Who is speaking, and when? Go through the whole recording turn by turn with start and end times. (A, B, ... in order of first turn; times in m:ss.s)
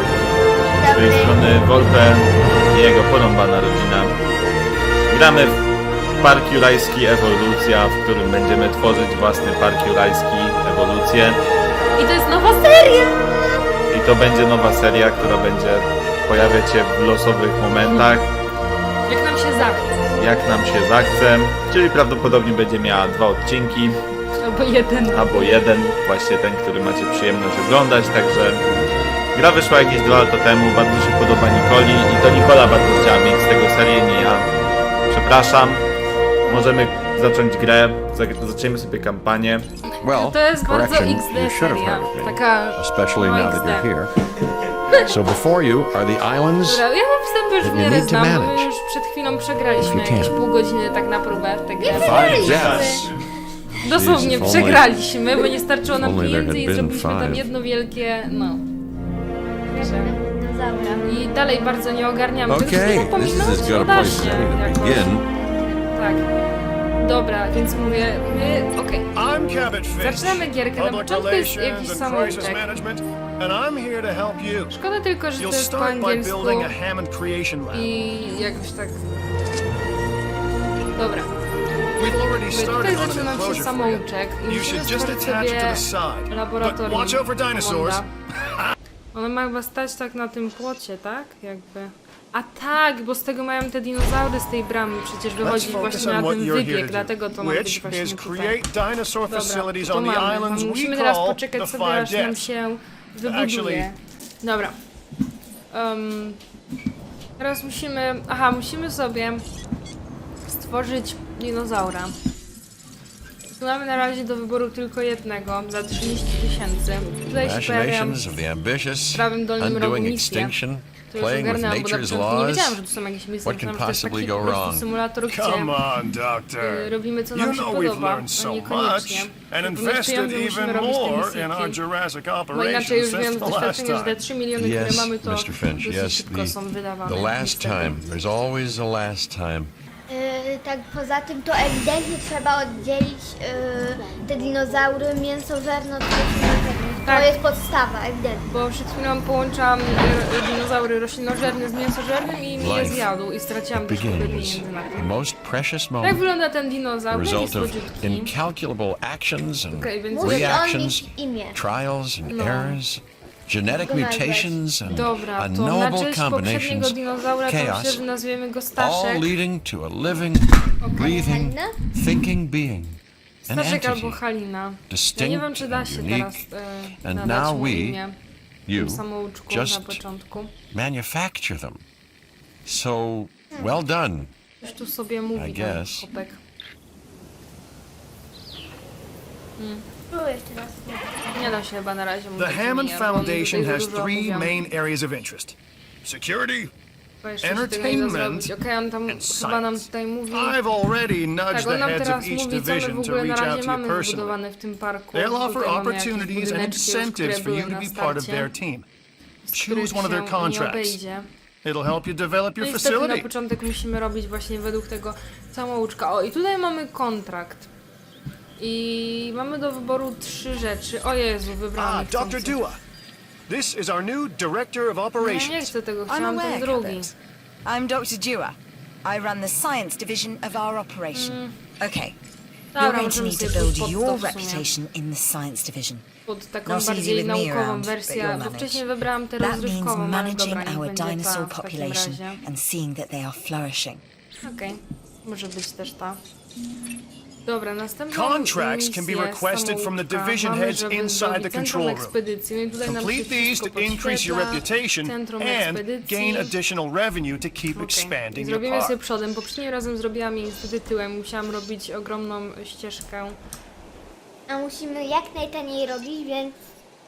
0:00.7-0:01.4 A
0:00.8-0:04.2 B
0:05.1-0:05.6 B
0:06.2-0:11.4 B
0:12.0-0:13.2 C
0:13.9-0:18.3 B
0:17.9-0:18.2 C
0:19.1-0:20.0 C
0:20.2-0:24.0 B
0:24.4-0:25.7 C
0:25.1-0:28.6 B
0:29.3-0:34.5 B
0:35.1-0:35.8 B
0:36.4-0:39.7 B
0:40.0-0:43.9 C
0:40.0-0:44.3 D
0:44.9-0:46.8 D
0:46.6-0:52.7 C
0:47.6-0:48.7 D
0:49.8-0:50.4 D
0:51.8-0:53.1 A
0:52.0-0:53.1 D
0:52.2-0:52.7 E
0:52.4-0:52.9 B
0:53.8-0:58.6 C
0:53.9-0:55.0 D
0:55.8-0:57.5 D
0:59.7-1:01.3 A
0:59.7-1:00.2 C
1:01.0-1:05.2 C
1:02.5-1:05.2 D
1:05.2-1:05.9 A
1:05.8-1:06.4 C
1:07.0-1:09.1 C
1:09.1-1:14.7 E
1:10.0-1:12.7 C
1:14.7-1:16.7 C
1:15.4-1:17.9 E
1:17.7-1:19.0 C
1:20.9-1:21.3 C
1:22.0-1:28.0 E
1:22.1-1:28.1 C
1:29.1-1:38.6 C
1:35.4-1:42.5 E
1:39.3-1:44.8 C
1:43.2-1:43.9 E
1:45.7-1:46.4 C
1:47.4-1:49.4 C
1:50.5-1:52.1 C
1:53.6-1:58.2 C
1:57.3-2:02.8 D
1:59.1-2:00.6 C
2:01.1-2:05.7 C
2:03.4-2:04.9 D
2:05.3-2:14.2 E
2:06.6-2:11.8 C
2:12.5-2:18.0 C
2:14.6-2:19.7 D
2:20.1-2:28.4 A
2:27.0-2:27.4 C
2:28.4-2:35.1 C
2:32.6-2:33.1 D
2:33.7-2:36.3 D
2:36.0-2:38.3 C
2:37.1-2:48.0 D
2:39.7-2:40.6 C
2:40.1-2:41.6 A
2:42.3-2:42.8 C
2:43.7-2:44.6 A
2:44.8-2:49.3 C
2:48.8-2:54.2 D
2:50.8-2:51.1 C
2:51.0-2:51.8 A
2:53.5-2:58.2 C
2:54.9-2:56.4 D
2:57.0-2:58.0 D
2:58.7-3:00.0 D
2:58.7-3:00.5 C
3:00.7-3:01.8 D
3:02.6-3:04.3 D
3:04.6-3:06.4 C
3:05.3-3:06.0 D
3:09.6-3:09.9 C
3:10.1-3:11.5 A
3:11.3-3:14.5 C
3:12.4-3:16.7 E
3:17.2-3:20.6 C
3:17.4-3:18.5 E
3:19.1-3:24.4 E
3:21.5-3:28.5 C
3:25.1-3:28.8 E
3:29.4-3:31.3 C
3:29.5-3:31.0 E
3:31.6-3:33.3 E
3:32.6-3:37.7 C
3:38.6-3:42.6 C
3:41.8-3:42.8 E
3:43.5-3:45.7 E
3:45.2-3:47.1 C
3:46.1-3:52.2 F
3:51.1-3:51.5 C
3:52.7-3:54.7 C
3:52.8-3:56.0 F
3:56.3-4:02.4 C
3:56.6-4:04.0 F
4:04.4-4:06.2 C
4:07.4-4:16.5 C
4:08.1-4:12.2 E
4:12.8-4:19.0 E
4:17.7-4:23.4 C
4:24.5-4:26.6 A